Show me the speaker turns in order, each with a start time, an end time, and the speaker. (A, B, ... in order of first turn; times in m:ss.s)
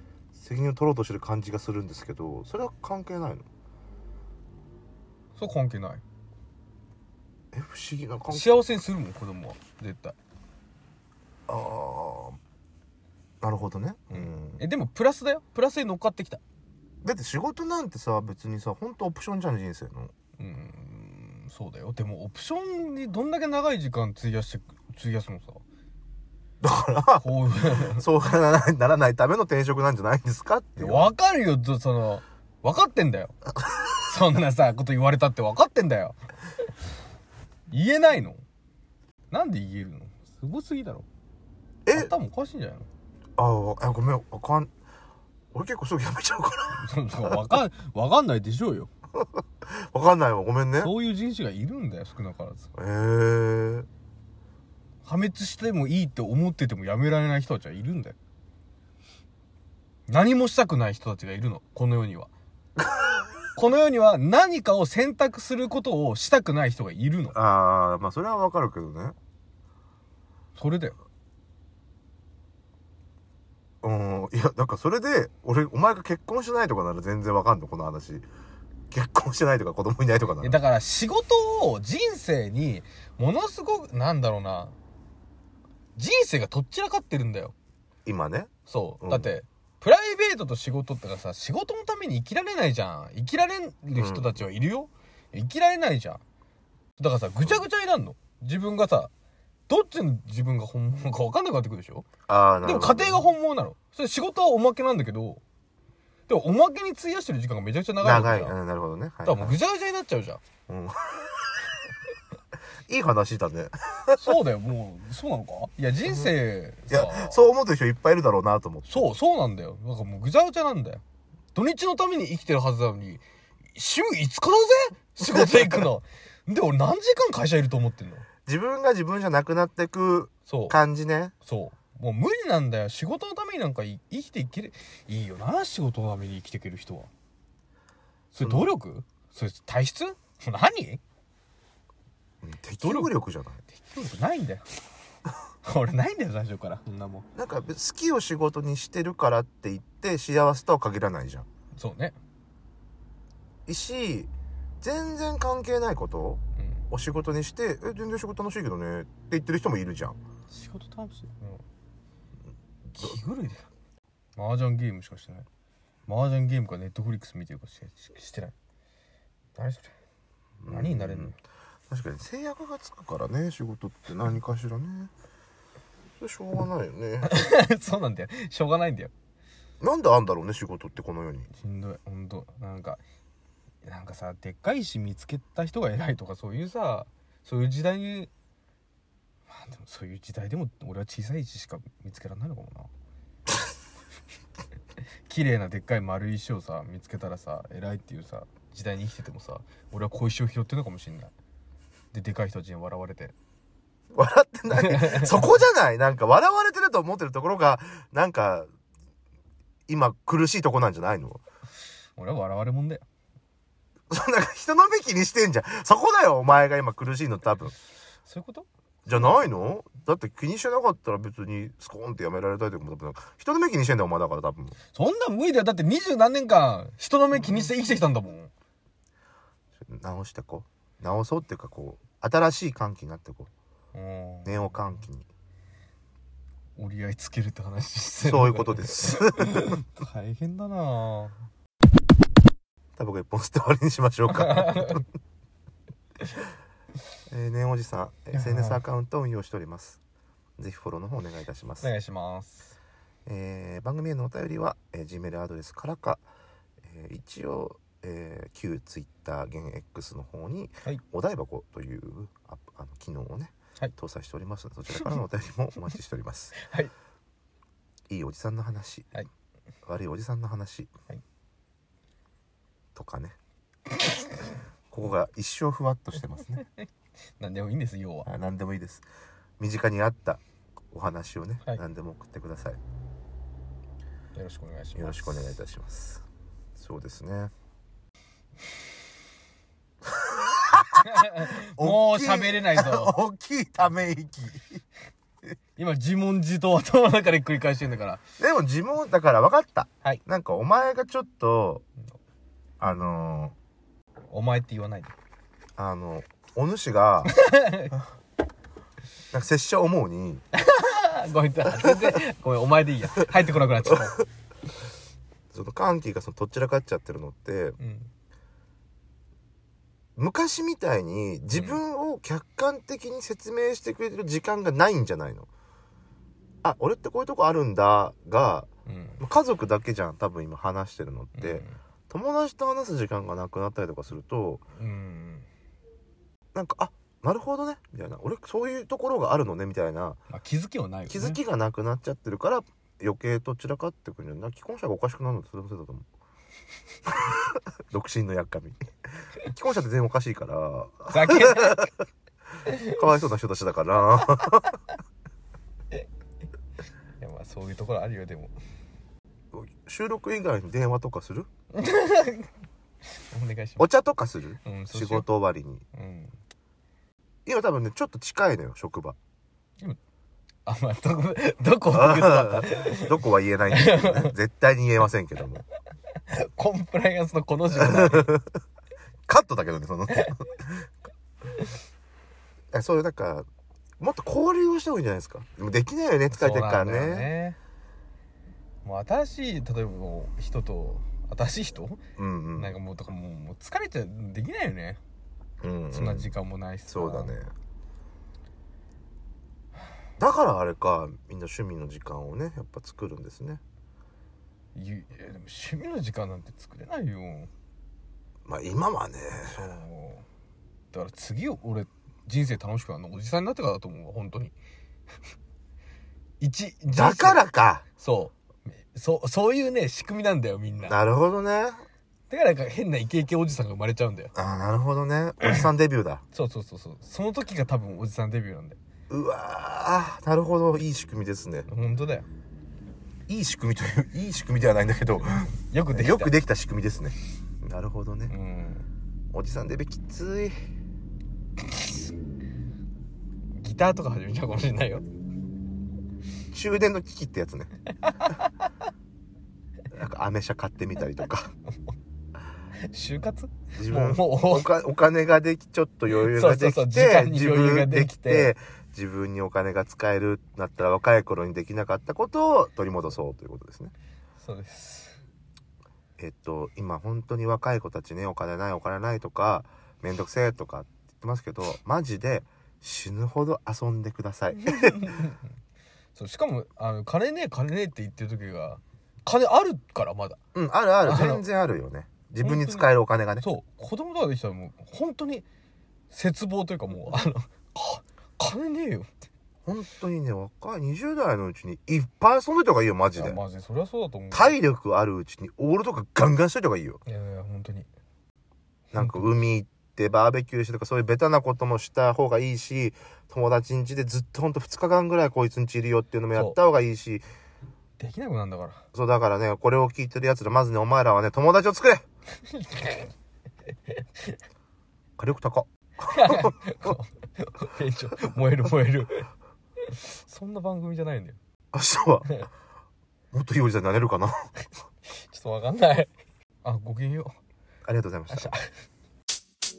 0:00.4-0:03.4 A
0:05.4-0:06.0 B
0:07.5-0:08.6 A
0:08.3-0:10.2 B
0:11.5-0:12.4 A
0:13.4-0:14.6 A
0:14.1-0:16.4 B
0:17.0-0:20.1 A
0:20.4-0:25.6 B
0:26.6-0:31.1 A
0:27.2-0:28.0 B
0:30.8-0:33.3 B
0:33.6-0:34.0 A
0:34.0-0:36.2 B
0:37.7-0:38.4 B
0:39.3-0:41.0 B
0:41.8-0:42.1 A
0:41.9-0:42.9 B
0:43.4-0:44.7 A
0:45.5-0:47.4 A
0:46.7-0:48.9 B
0:49.2-0:50.9 A
0:50.8-0:52.7 B
0:52.7-0:53.9 A
0:55.0-0:58.2 B
1:00.1-1:02.3 B
1:02.8-1:03.3 A
1:03.5-1:07.4 B
1:07.3-1:09.1 A
1:10.5-1:10.9 B
1:13.8-1:18.2 A
1:18.9-1:20.6 A
1:20.4-1:24.7 B
1:26.0-1:27.5 B
1:28.0-1:29.3 A
1:28.7-1:36.2 B
1:34.0-1:34.4 A
1:37.0-1:39.1 B
1:39.7-1:42.1 B
1:42.3-1:43.2 A
1:42.6-1:45.4 B
1:46.3-1:48.6 B
1:48.0-1:49.6 A
1:49.2-1:50.4 B
1:50.7-1:51.5 A
1:52.9-1:54.2 A
1:54.2-1:57.5 B
1:56.9-1:59.1 A
1:58.9-2:01.0 B
2:01.5-2:08.2 B
2:05.2-2:05.9 A
2:08.4-2:11.3 A
2:10.5-2:10.8 B
2:11.4-2:17.1 B
2:18.3-2:21.0 B
2:18.4-2:18.7 A
2:22.4-2:23.6 A
2:22.8-2:23.1 B
2:23.7-2:24.6 B
2:25.6-2:27.3 B
2:27.3-2:31.4 A
2:31.7-2:32.2 B
2:33.7-2:34.3 A
2:34.8-2:40.2 A
2:36.6-2:36.8 B
2:40.5-2:41.6 B
2:42.9-2:43.7 B
2:44.4-2:45.5 B
2:46.0-2:48.5 B
2:49.5-2:49.9 B
2:50.6-2:51.4 A
2:50.7-2:51.4 B
2:51.9-2:55.1 A
2:56.2-2:57.3 A
2:57.2-2:59.1 B
2:59.8-3:01.5 A
3:01.5-3:03.0 B
3:03.8-3:08.3 B
3:09.5-3:12.9 B
3:15.3-3:21.3 B
3:22.1-3:23.3 B
3:24.1-3:28.7 A
3:24.7-3:25.5 B
3:29.9-3:31.4 A
3:32.2-3:33.0 B
3:34.1-3:37.7 A
3:38.2-3:39.4 B
3:39.0-3:44.8 A
3:44.9-3:48.5 B
3:49.8-3:53.5 A
3:53.9-3:54.8 B
3:54.4-3:55.3 A
3:56.8-4:01.4 B
3:58.2-3:59.8 A
4:03.0-4:05.0 A
4:04.3-4:05.0 B
4:07.3-4:10.0 A
4:08.3-4:08.8 B
4:10.6-4:11.9 A
4:11.8-4:12.8 B
4:13.2-4:16.2 A
4:16.8-4:26.6 A
4:26.6-4:26.9 B
4:28.1-4:29.1 A
4:29.8-4:30.9 A
4:32.9-4:33.4 A
4:34.9-4:36.6 A
4:37.4-4:38.3 B
4:38.2-4:39.0 A
4:39.6-4:40.4 A
4:40.9-4:42.8 A
4:44.3-4:45.4 B
4:45.0-4:46.2 A
4:46.8-4:47.5 A
4:50.1-4:54.8 A
4:51.0-4:53.2 B
4:55.8-4:58.2 B
4:58.4-5:01.8 A
5:02.8-5:03.5 A
5:04.3-5:05.1 B
5:05.8-5:07.4 A
5:07.3-5:08.0 B
5:09.3-5:10.4 A
5:10.5-5:14.2 B
5:15.5-5:17.8 A
5:17.8-5:18.1 B
5:20.2-5:25.5 A
5:21.5-5:21.8 B
5:26.6-5:34.6 A
5:28.8-5:29.2 B
5:31.4-5:31.8 B
5:34.8-5:35.5 B
5:36.5-5:40.2 A
5:40.3-5:41.4 B
5:41.1-5:46.0 A
5:47.1-5:48.8 A
5:49.4-5:51.9 A
5:51.1-5:51.9 B
5:52.7-5:52.9 B
5:52.8-5:54.8 A
5:57.2-5:58.5 B
5:59.5-6:01.5 A
6:01.7-6:02.5 B
6:03.2-6:03.8 B
6:03.8-6:05.8 A
6:04.6-6:05.3 B
6:05.9-6:06.3 B
6:07.4-6:09.2 A
6:10.6-6:13.1 B
6:11.9-6:15.6 A
6:13.7-6:14.3 B
6:16.1-6:18.4 B
6:17.8-6:18.5 A
6:19.3-6:20.9 A
6:22.7-6:23.5 A
6:24.0-6:27.3 A
6:26.3-6:27.6 B
6:28.8-6:32.0 B
6:32.2-6:32.7 A
6:32.5-6:35.0 B
6:35.6-6:36.3 A
6:35.9-6:37.3 B
6:36.9-6:37.5 A
6:40.2-6:43.6 A
6:44.7-6:47.5 B
6:48.5-6:49.7 A
6:49.4-6:50.2 B
6:50.9-6:54.5 B
6:56.4-6:57.4 B
6:56.9-6:57.8 A
6:58.0-7:01.0 B
7:00.8-7:01.8 A
7:02.3-7:04.3 B
7:04.3-7:06.2 A
7:06.3-7:08.8 B
7:09.1-7:11.7 A
7:11.7-7:12.3 B
7:13.3-7:18.3 A
7:15.5-7:16.4 B
7:18.3-7:18.9 B
7:19.3-7:20.6 A
7:23.5-7:25.0 B
7:26.5-7:27.7 A
7:28.0-7:28.7 B
7:29.9-7:31.5 A
7:32.8-7:34.7 B
7:33.7-7:43.9 A
7:36.1-7:38.5 B
7:44.4-7:45.2 B
7:46.2-7:55.2 A
7:54.6-7:55.4 B
7:56.1-8:00.4 B
8:00.5-8:03.5 A
8:01.0-8:01.4 B
8:02.4-8:05.4 B
8:06.1-8:09.1 B
8:09.6-8:13.4 A
8:13.1-8:14.6 B
8:14.3-8:17.0 A
8:17.0-8:17.9 B
8:18.9-8:19.4 B
8:18.9-8:27.2 A
8:28.0-8:28.8 B
8:28.9-8:32.0 A
8:32.4-8:33.1 B
8:33.9-8:34.4 B
8:35.2-8:36.6 A
8:36.0-8:41.4 B
8:41.7-8:42.4 A
8:43.3-8:44.5 A
8:45.1-8:46.1 B
8:46.6-8:47.4 B
8:47.8-8:48.5 A
8:48.3-8:48.7 B